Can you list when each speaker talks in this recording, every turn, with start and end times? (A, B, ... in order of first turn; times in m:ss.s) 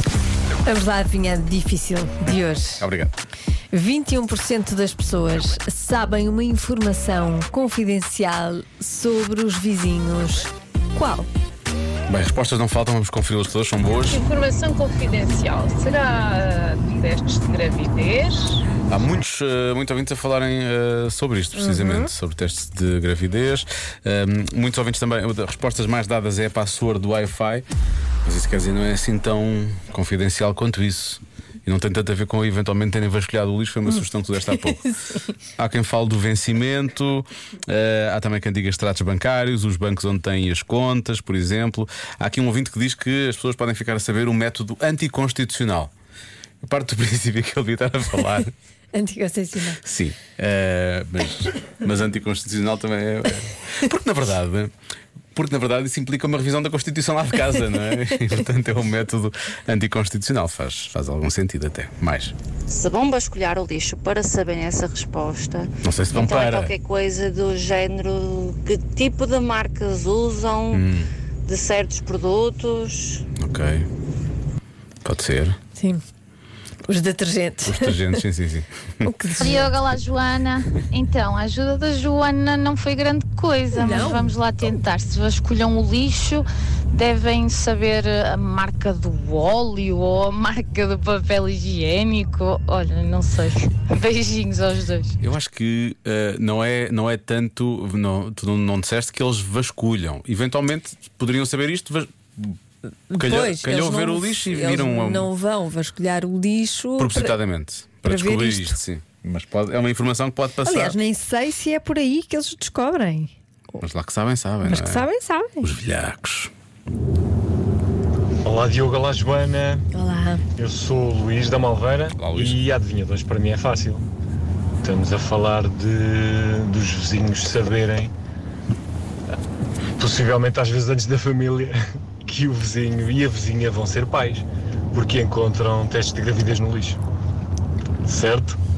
0:00.6-0:02.9 A
0:02.8-0:03.2 B
0:03.7-0:11.3 A
0:12.1-0:14.2 B
0:14.1-0:18.6 C
0:18.9-0:27.7 B
0:28.2-0:34.9 B
0:35.6-0:45.9 B
0:46.6-0:48.5 B
0:48.9-0:49.8 A
0:49.8-0:54.7 B
0:55.3-1:02.4 B
1:02.7-1:10.8 D
1:05.8-1:06.7 B
1:10.7-1:11.1 B
1:11.4-1:13.2 D
1:13.4-1:13.9 B
1:15.0-1:15.6 B
1:15.8-1:16.0 A
1:16.9-1:18.2 A
1:17.6-1:19.1 B
1:19.0-1:19.7 A
1:19.4-1:35.2 E
1:23.7-1:24.3 A
1:35.2-1:42.6 B
1:43.1-1:47.4 A
1:43.2-1:45.3 B
1:47.0-1:51.0 B
1:48.0-1:48.8 A
1:50.6-1:53.3 A
1:53.8-1:55.1 B
1:54.6-1:55.7 A
1:55.6-1:56.5 B
1:58.4-1:59.8 F
1:59.9-2:00.4 A
2:00.6-2:04.1 F
2:02.2-2:02.6 B
2:04.8-2:08.1 F
2:10.0-2:17.0 F
2:18.1-2:18.6 F